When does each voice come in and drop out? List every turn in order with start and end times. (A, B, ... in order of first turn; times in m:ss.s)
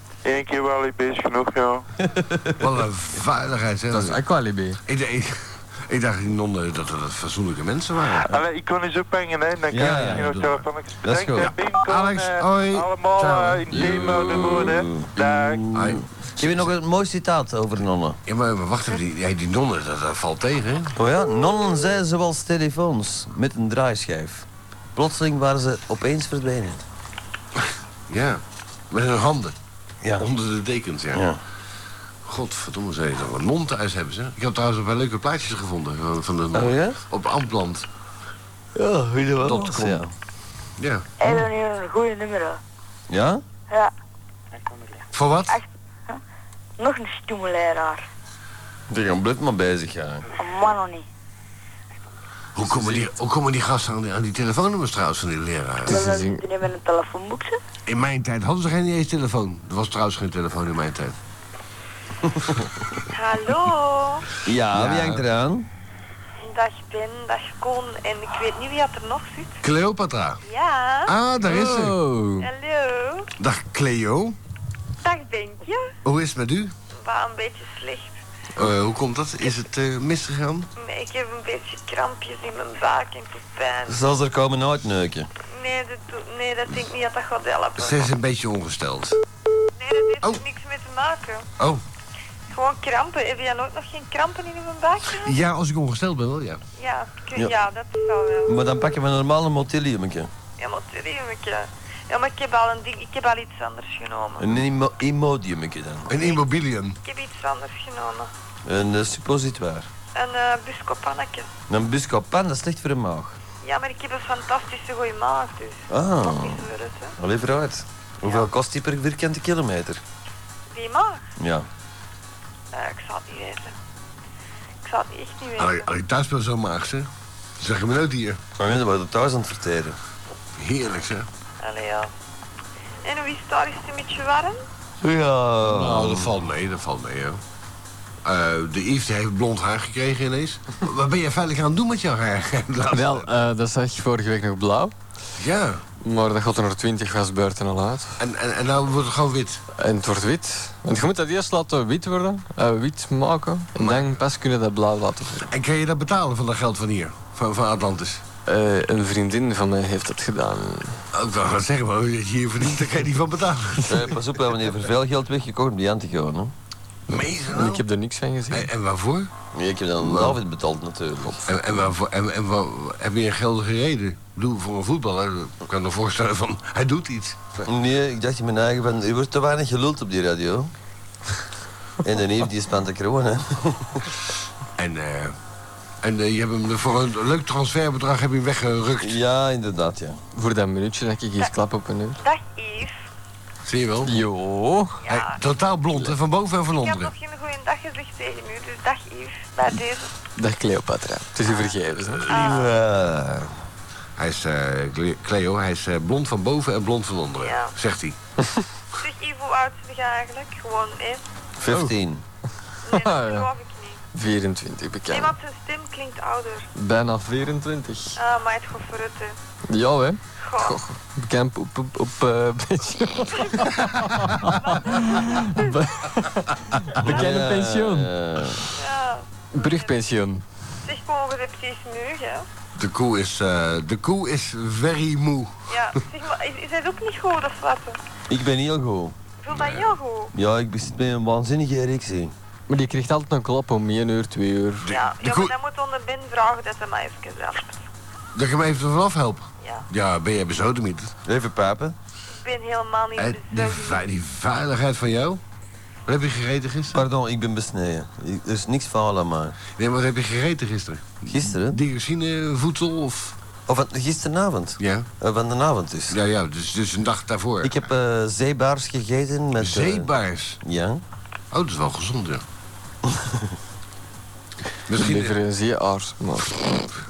0:00.2-0:01.8 A
0:02.0-0:02.6 B
0:02.6-0:04.2 C
0:03.9-0:04.8 D
0:04.8-0:08.3 C
0:08.2-0:15.6 A
0:09.7-0:10.3 B
0:10.1-0:10.6 C
0:11.0-0:11.5 B
0:11.4-0:14.2 C
0:13.7-0:18.2 B
0:15.7-0:16.7 C
0:18.2-0:21.0 C
0:21.0-0:26.8 B
0:27.6-0:29.6 C
0:30.2-0:31.3 C
0:31.1-0:31.4 B
0:32.2-0:37.9 C
0:36.5-0:37.0 B
0:38.8-0:40.1 B
0:39.4-0:40.0 C
0:40.8-0:41.1 C
0:41.2-0:42.6 E
0:43.1-0:43.4 B
0:45.1-0:45.6 C
0:45.5-0:46.2 E
0:46.8-0:48.0 E
0:48.9-0:50.2 B
0:50.3-0:51.0 E
0:52.5-0:56.1 C
0:55.8-0:56.4 D
0:55.9-0:57.6 E
0:57.9-1:01.2 C
1:02.3-1:02.6 B
1:03.1-1:04.3 F
1:04.4-1:05.7 B
1:04.8-1:05.2 C
1:06.4-1:09.6 F
1:09.6-1:10.4 C
1:10.4-1:11.1 F
1:11.1-1:12.0 C
1:11.4-1:12.5 D
1:12.4-1:13.3 F
1:13.4-1:14.4 C
1:15.0-1:15.9 F
1:16.0-1:16.7 C
1:17.0-1:18.1 F
1:18.6-1:20.7 C
1:20.8-1:24.0 F
1:23.9-1:25.3 B
1:25.5-1:28.1 F
1:27.8-1:29.2 C
1:29.8-1:31.5 F
1:32.5-1:35.4 F
1:35.1-1:36.6 C
1:36.8-1:38.7 F
1:38.5-1:40.3 B
1:40.6-1:44.5 F
1:44.4-1:46.1 B
1:46.1-1:47.0 C
1:47.0-1:48.3 F
1:48.6-1:49.9 B
1:50.1-1:51.5 F
1:51.7-1:53.4 B
1:53.6-1:57.1 F
1:55.9-1:56.6 B
1:57.2-2:00.0 B
2:00.7-2:01.2 F
2:01.4-2:01.7 B
2:02.7-2:03.7 F
2:04.8-2:05.9 F
2:05.6-2:08.4 C
2:08.6-2:10.0 B
2:10.6-2:11.3 C
2:11.6-2:12.1 F
2:13.0-2:14.6 F
2:15.0-2:16.3 B
2:15.6-2:17.4 C
2:18.2-2:23.3 C
2:22.9-2:24.9 D
2:25.4-2:25.8 C
2:26.0-2:28.2 D
2:28.2-2:29.6 C
2:29.8-2:35.5 D
2:33.8-2:34.2 C
2:35.5-2:38.2 C
2:38.4-2:41.0 D
2:41.1-2:44.1 C
2:43.9-2:46.5 B
2:47.1-2:47.8 C
2:47.5-2:48.7 D
2:48.5-2:49.3 C
2:49.5-2:51.4 B
2:50.0-2:50.4 C
2:51.4-2:57.7 C
2:57.7-3:00.7 B
3:02.0-3:04.1 B
3:04.8-3:05.4 C
3:06.0-3:09.2 C
3:09.0-3:10.2 B
3:10.3-3:12.2 D
3:12.2-3:13.0 F
3:13.6-3:14.2 C
3:14.1-3:15.0 D
3:15.1-3:15.4 F
3:15.1-3:17.1 C
3:16.8-3:20.1 F
3:20.4-3:22.3 D
3:22.3-3:22.7 F
3:22.3-3:23.5 B
3:24.2-3:28.2 C
3:27.4-3:27.7 F
3:29.0-3:31.2 F
3:31.6-3:32.2 B
3:31.7-3:31.9 D
3:32.8-3:34.0 F
3:32.9-3:33.5 D
3:34.2-3:35.3 D
3:35.1-3:36.7 F
3:36.8-3:38.2 D
3:38.2-3:39.3 F
3:39.7-3:48.6 D
3:40.4-3:40.8 F
3:43.4-3:43.7 F
3:44.5-3:45.7 F
3:47.1-3:48.6 B
3:48.8-3:49.9 F
3:49.6-3:50.4 D
3:50.8-3:52.4 F
3:52.8-3:55.7 C
3:55.7-3:58.0 F
3:58.3-3:59.2 B
3:59.4-4:00.3 F
3:59.5-4:00.0 C
4:00.3-4:02.3 B
4:02.7-4:04.8 D
4:04.8-4:05.6 C
4:04.9-4:07.8 F
4:08.3-4:11.1 C
4:11.2-4:12.0 B
4:12.4-4:14.0 F
4:13.2-4:15.4 C
4:16.1-4:17.1 C
4:16.9-4:19.6 B
4:19.8-4:23.4 C
4:21.3-4:21.8 B
4:23.7-4:26.2 B
4:24.8-4:25.1 C
4:26.1-4:27.8 C
4:27.6-4:30.1 B
4:29.6-4:30.6 C
4:30.6-4:31.0 B
4:31.5-4:32.4 C
4:33.1-4:33.5 B
4:34.9-4:35.4 C
4:34.9-4:37.0 D